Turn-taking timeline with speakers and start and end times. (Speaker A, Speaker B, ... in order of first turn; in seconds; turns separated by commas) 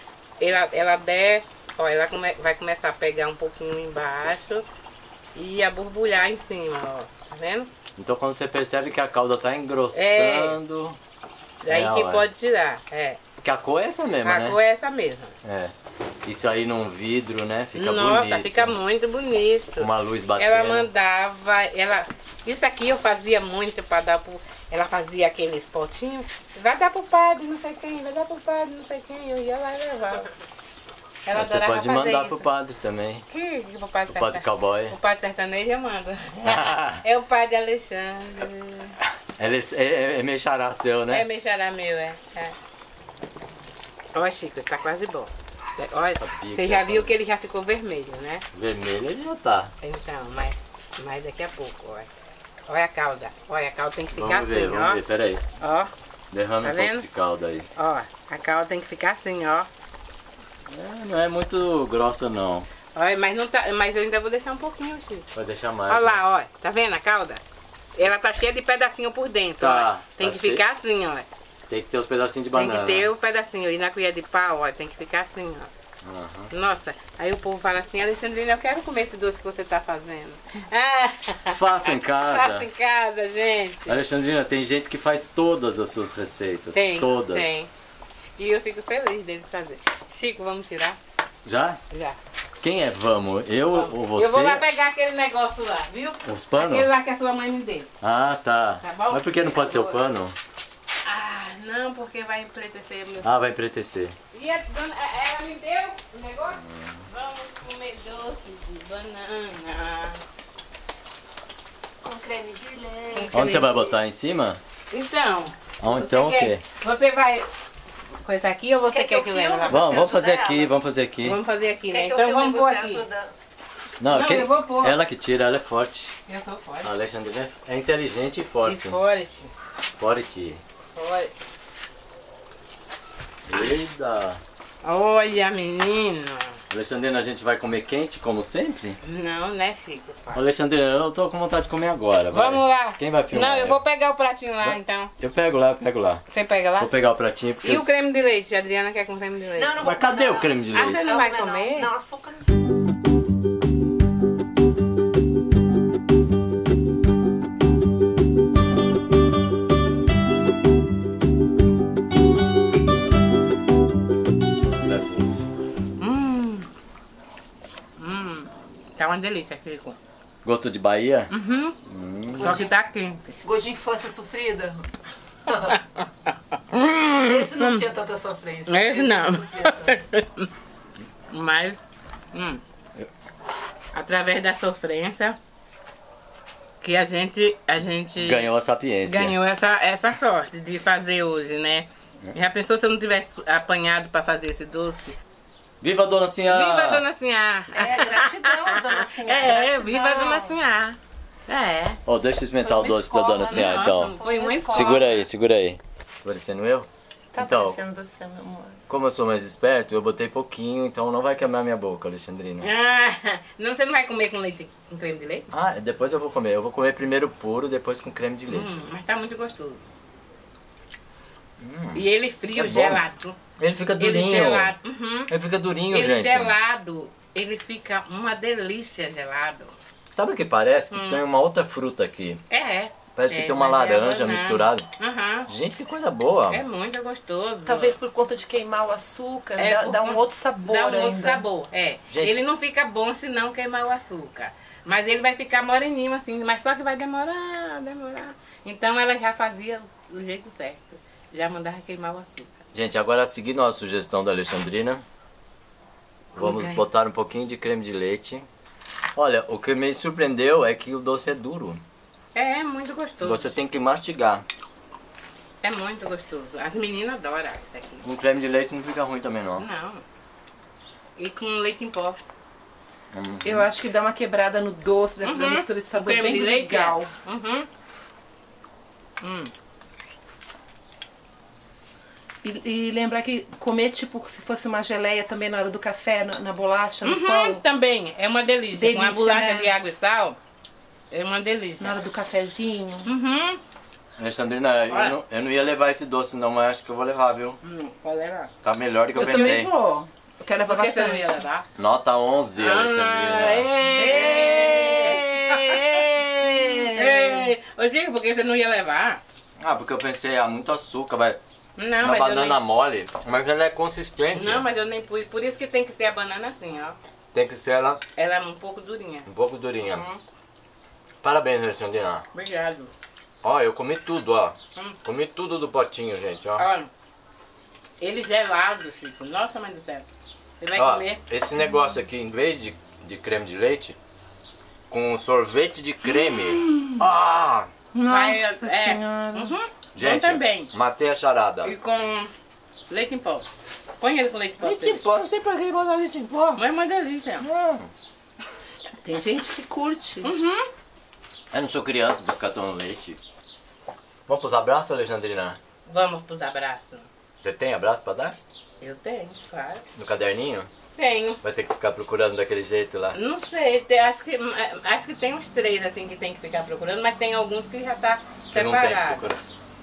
Speaker A: 0.4-4.7, Speaker A: 5.3-7.7, Speaker B: 8.0-11.0, Speaker A: 9.9-10.6, Speaker A: 11.6-13.2, Speaker B: 11.7-12.3, Speaker B: 13.4-14.6, Speaker A: 14.2-15.3, Speaker B: 15.4-18.8, Speaker A: 17.8-30.3, Speaker B: 19.8-20.9, Speaker A: 31.3-32.5, Speaker B: 31.3-33.2, Speaker A: 33.3-39.0, Speaker B: 34.1-35.0, Speaker B: 36.4-37.0, Speaker B: 39.4-41.3, Speaker A: 41.1-42.6, Speaker A: 44.1-48.4, Speaker B: 46.1-47.1, Speaker B: 48.5-49.7, Speaker A: 49.8-52.1, Speaker A: 52.7-55.0, Speaker B: 54.1-55.4, Speaker A: 55.6-55.9, Speaker B: 56.3-57.7, Speaker A: 56.6-57.1, Speaker A: 57.8-59.7, Speaker B: 60.7-62.7, Speaker A: 62.9-65.3, Speaker B: 65.3-66.2, Speaker A: 65.9-67.4, Speaker A: 68.0-71.3, Speaker B: 69.6-70.6, Speaker B: 71.7-73.1, Speaker A: 72.5-75.7, Speaker B: 76.0-76.5, Speaker A: 76.5-84.0, Speaker B: 81.5-82.7, Speaker B: 83.9-87.5, Speaker A: 86.7-87.7, Speaker A: 88.4-91.0, Speaker B: 91.5-91.8, Speaker A: 91.9-92.2, Speaker B: 92.6-94.6, Speaker A: 93.7-97.9, Speaker B: 96.2-96.9, Speaker B: 98.0-100.3, Speaker A: 98.8-100.0, Speaker A: 101.0-103.3, Speaker B: 103.2-104.2, Speaker A: 104.3-110.2, Speaker B: 106.6-107.1, Speaker C: 112.0-113.8, Speaker A: 113.1-113.8, Speaker B: 113.3-114.6, Speaker A: 114.9-117.5, Speaker B: 115.8-116.6, Speaker A: 118.2-119.9, Speaker C: 118.9-120.7, Speaker B: 119.7-121.4, Speaker A: 121.2-123.0, Speaker C: 121.9-123.3, Speaker B: 124.0-126.1, Speaker A: 124.1-125.0, Speaker A: 126.3-126.9, Speaker B: 126.8-129.0, Speaker A: 128.7-129.5, Speaker B: 130.0-130.6, Speaker A: 130.9-131.3, Speaker B: 133.5-134.4, Speaker A: 134.8-136.6, Speaker B: 136.7-139.0, Speaker A: 139.0-140.4, Speaker B: 140.3-143.8, Speaker A: 142.3-145.1, Speaker B: 144.6-146.2, Speaker A: 146.3-146.9, Speaker B: 146.8-147.9, Speaker A: 147.6-149.8, Speaker C: 149.6-152.4, Speaker B: 149.8-151.0, Speaker A: 150.7-151.9, Speaker B: 164.8-165.4, Speaker A: 166.0-166.7, Speaker A: 168.0-170.0, Speaker B: 170.4-171.3, Speaker A: 171.3-171.8, Speaker B: 171.8-172.6, Speaker A: 172.4-173.3, Speaker C: 172.4-172.7, Speaker C: 173.4-174.8, Speaker C: 175.5-175.8, Speaker A: 175.7-177.8, Speaker C: 177.1-180.0, Speaker A: 178.7-180.5, Speaker A: 181.3-181.8, Speaker A: 182.3-182.6, Speaker A: 183.9-185.4, Speaker A: 186.8-188.5, Speaker B: 188.2-189.3, Speaker A: 189.1-195.2, Speaker B: 195.8-197.1, Speaker A: 196.5-202.0, Speaker C: 197.7-200.6, Speaker B: 202.1-204.2, Speaker C: 202.6-205.2, Speaker A: 203.5-205.2, Speaker B: 204.7-207.8, Speaker C: 207.3-208.8, Speaker B: 208.9-212.7, Speaker A: 212.6-215.5, Speaker B: 215.5-218.8, Speaker A: 218.5-219.8, Speaker B: 221.6-223.0, Speaker A: 221.9-223.4, Speaker B: 223.6-224.8, Speaker A: 224.0-225.3, Speaker B: 225.3-226.6, Speaker A: 225.9-229.8, Speaker B: 230.1-232.4, Speaker A: 230.9-231.2, Speaker A: 232.5-235.5, Speaker B: 233.2-234.9, Speaker B: 235.5-236.6, Speaker A: 236.5-238.0, Speaker C: 237.7-241.4, Speaker A: 239.6-252.6, Speaker B: 242.1-242.4, Speaker B: 252.7-255.0, Speaker A: 256.3-256.8, Speaker B: 256.4-258.5, Speaker B: 259.1-261.8, Speaker A: 262.4-263.6, Speaker B: 263.2-264.4, Speaker A: 265.6-268.1, Speaker B: 268.0-269.7, Speaker A: 269.6-270.0, Speaker A: 271.2-272.2, Speaker B: 273.1-273.7, Speaker C: 273.4-277.1, Speaker A: 275.2-277.7, Speaker A: 279.2-279.5, Speaker C: 282.4-287.6, Speaker A: 287.0-290.4, Speaker C: 288.7-289.7, Speaker A: 291.1-292.0, Speaker C: 291.8-293.1, Speaker A: 293.1-293.6, Speaker B: 294.2-297.6, Speaker A: 294.9-295.2, Speaker A: 297.6-298.5, Speaker B: 298.6-299.7, Speaker C: 299.1-301.4, Speaker A: 299.2-299.6, Speaker A: 300.6-301.7, Speaker B: 301.8-307.3, Speaker A: 302.6-306.0, Speaker C: 304.0-305.3, Speaker A: 306.9-309.2, Speaker B: 309.6-311.4, Speaker A: 311.8-312.6, Speaker B: 312.0-314.7, Speaker A: 314.3-317.0, Speaker B: 317.3-318.0, Speaker A: 318.2-319.3, Speaker B: 319.3-320.1, Speaker A: 319.9-320.2, Speaker B: 321.2-322.2, Speaker A: 322.3-322.9, Speaker B: 323.4-326.7, Speaker A: 326.6-326.9, Speaker A: 328.0-330.1, Speaker A: 330.6-331.2, Speaker B: 330.8-334.0, Speaker B: 334.9-337.7, Speaker C: 337.9-339.5, Speaker A: 338.0-340.7, Speaker B: 339.9-341.7, Speaker A: 341.6-342.3, Speaker A: 342.9-343.5, Speaker A: 344.0-345.0, Speaker B: 344.6-346.6, Speaker A: 346.6-347.5, Speaker B: 347.4-347.9, Speaker C: 349.0-350.3, Speaker A: 350.2-350.7, Speaker B: 351.5-353.2, Speaker B: 354.3-355.6, Speaker A: 355.9-357.1, Speaker B: 357.4-358.4, Speaker A: 358.8-359.9, Speaker B: 360.0-360.7, Speaker A: 360.9-361.4, Speaker B: 361.4-363.2, Speaker A: 363.1-369.2, Speaker B: 368.5-369.4